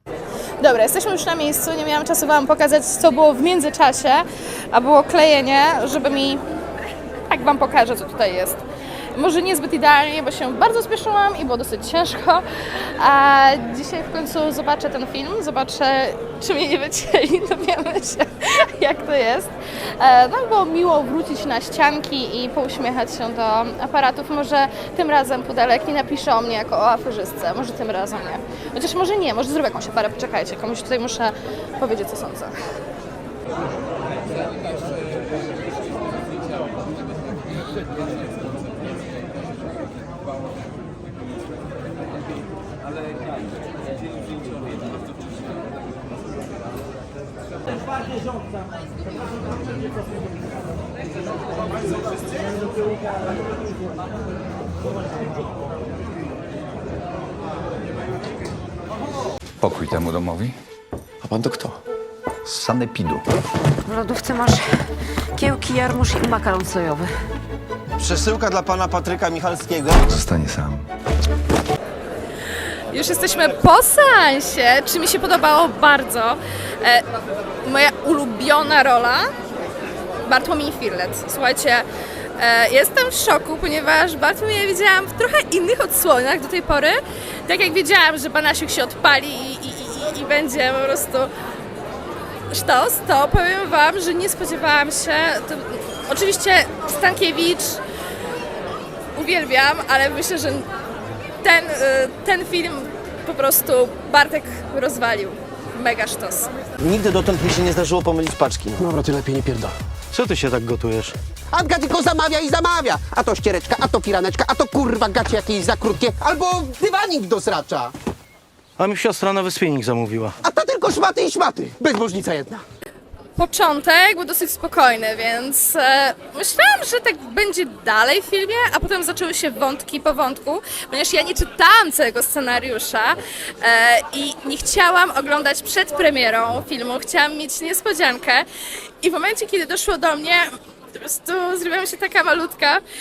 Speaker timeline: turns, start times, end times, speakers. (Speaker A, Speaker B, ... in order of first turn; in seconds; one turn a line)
Speaker A: 0.6-6.4
Speaker A: 7.3-8.6
Speaker A: 9.1-32.5
Speaker B: 59.6-60.6
Speaker B: 62.4-63.2
Speaker C: 63.8-64.6
Speaker C: 65.3-67.1
Speaker D: 68.0-70.0
Speaker B: 70.1-70.8
Speaker A: 72.9-77.0
Speaker A: 77.6-79.3
Speaker A: 80.2-81.8
Speaker A: 82.4-91.3
Speaker A: 92.5-97.8
Speaker A: 99.2-100.7
Speaker A: 101.4-106.5
Speaker D: 106.8-108.9
Speaker E: 108.9-109.7
Speaker F: 110.1-111.2
Speaker E: 111.5-117.9
Speaker F: 118.8-120.3
Speaker E: 120.4-122.6
Speaker A: 123.4-138.4
Speaker A: 139.0-142.8